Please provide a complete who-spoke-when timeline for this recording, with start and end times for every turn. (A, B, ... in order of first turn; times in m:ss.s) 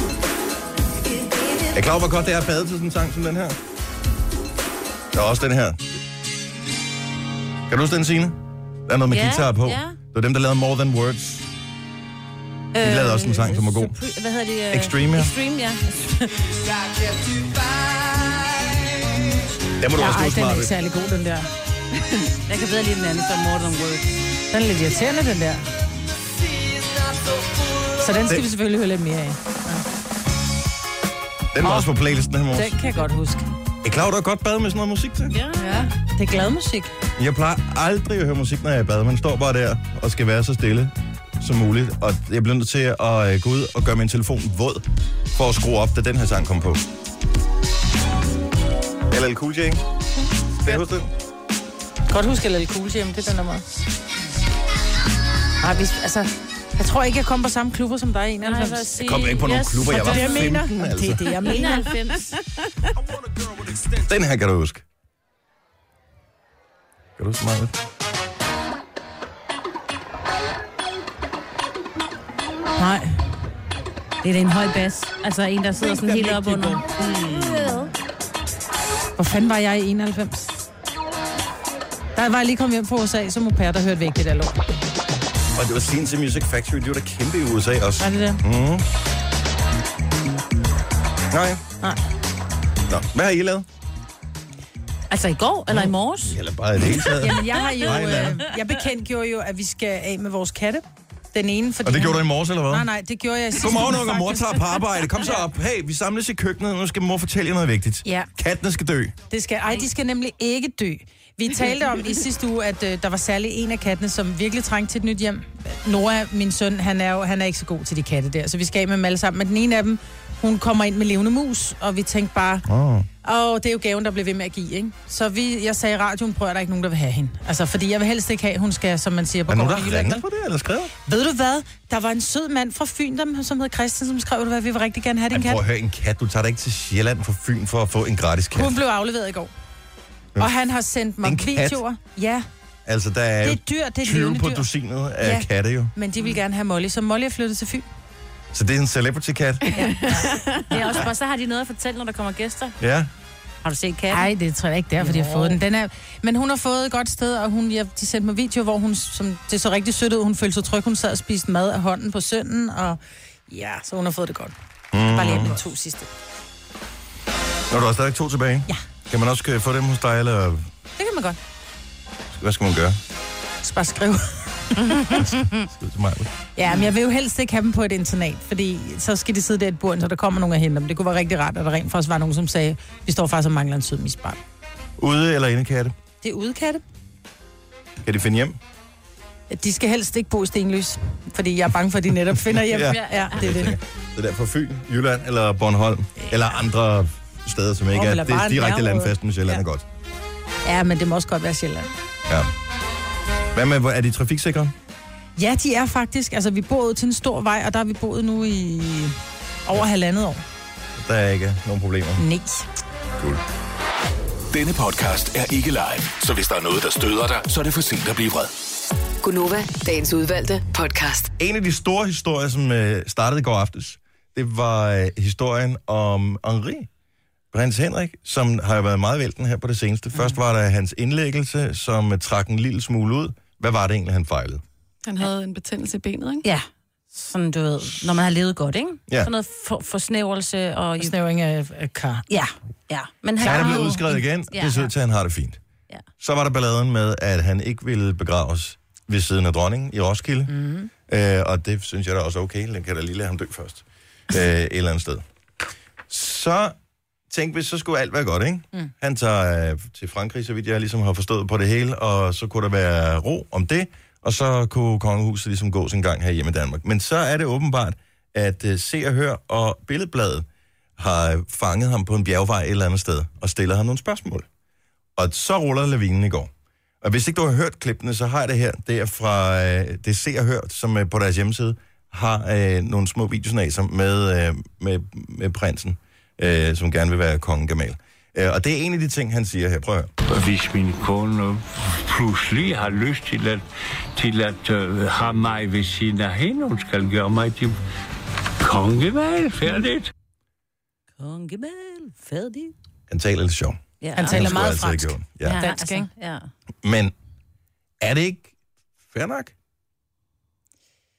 0:01.7-0:03.6 A
0:05.1-0:05.8 A
0:07.7-0:11.5 A
0:09.1-0:10.0 B
0:12.7-0:16.5 B
0:12.8-0:13.9 A
0:14.7-0:15.3 A
0:19.8-0:20.7 A
0:20.0-0:21.5 C
0:22.5-0:24.2 B
0:24.5-0:25.6 C
0:28.0-0:29.8 C
0:31.5-0:32.8 A
0:31.6-0:31.9 C
0:32.5-0:33.4 C
0:33.8-0:35.4 A
0:35.3-0:35.9 B
0:35.6-0:35.9 D
0:36.1-0:36.9 C
0:37.2-0:46.9 A
0:49.1-0:49.8 A
0:50.6-0:51.1 A
0:52.1-0:53.8 C
0:55.6-0:58.9 C
0:58.4-1:00.6 B
0:59.0-1:01.3 A
0:59.9-1:01.9 C
1:01.4-1:02.3 B
1:03.6-1:04.8 A
1:07.2-1:07.8 A
1:12.8-1:13.2 C
1:14.2-1:17.9 B
1:15.8-1:16.8 C
1:19.2-1:20.6 C
1:22.1-1:24.5 C
1:25.5-1:28.8 A
1:28.0-1:28.4 C
1:31.3-1:31.6 A
1:32.9-1:33.6 A
1:35.1-1:36.4 B
1:35.7-1:38.4 A
1:37.2-1:44.7 C
1:41.8-1:42.9 A
1:43.6-1:49.1 A
1:49.3-2:02.6 C
2:02.6-2:03.1 A
2:03.2-2:10.2 C
2:09.5-2:10.9 A
2:11.0-2:15.6 C
2:15.3-2:18.8 A
2:18.5-2:19.5 C
2:20.4-2:22.4 C
2:21.2-2:21.8 A
2:22.8-2:25.9 A
2:23.4-2:24.6 C
2:25.2-2:27.8 C
2:28.5-2:29.9 A
2:29.7-2:30.8 D
2:30.7-2:32.8 B
2:32.8-2:33.1 A
2:33.6-2:34.2 B
2:34.1-2:46.1 C
2:35.0-2:35.6 B
2:44.9-2:45.6 A
2:47.7-2:50.7 A
2:51.0-2:51.4 C
2:52.3-2:53.0 A
2:53.6-2:55.2 C
2:54.8-2:55.5 B
2:55.1-2:56.3 A
2:56.6-3:04.4 C
3:05.0-3:05.9 A
3:06.2-3:06.8 C
3:08.0-3:08.6 A
3:09.5-3:13.8 C
3:12.4-3:19.8 A
3:12.8-3:13.4 B
3:17.9-3:19.6 C
3:20.6-3:21.9 C
3:23.5-3:24.7 A
3:25.4-3:30.4 C
3:31.0-3:32.2 A
3:32.2-3:32.7 C
3:34.5-3:38.5 E
3:39.2-3:41.3 F
3:41.4-3:46.9 A
3:47.5-3:54.6 A
3:55.0-3:56.4 D
3:56.4-4:01.1 B
4:01.0-4:02.2 C
4:02.3-4:04.9 B
4:03.4-4:04.2 C
4:03.4-4:05.6 A
4:06.2-4:10.5 A
4:10.5-4:10.9 C
4:11.1-4:15.2 A
4:16.1-4:16.8 A
4:17.3-4:30.4 A
4:31.0-4:34.5 A
4:35.2-4:36.5 A
4:37.0-4:50.1 A
4:50.3-4:53.6 G
4:54.2-4:57.8 G
4:58.6-5:00.1 G
5:01.2-5:02.7 B
5:03.1-5:05.6 A
5:04.0-5:04.5 B
5:04.1-5:06.1 C
5:05.4-5:06.5 B
5:06.8-5:07.1 A
5:08.0-5:08.5 A
5:09.1-5:09.5 A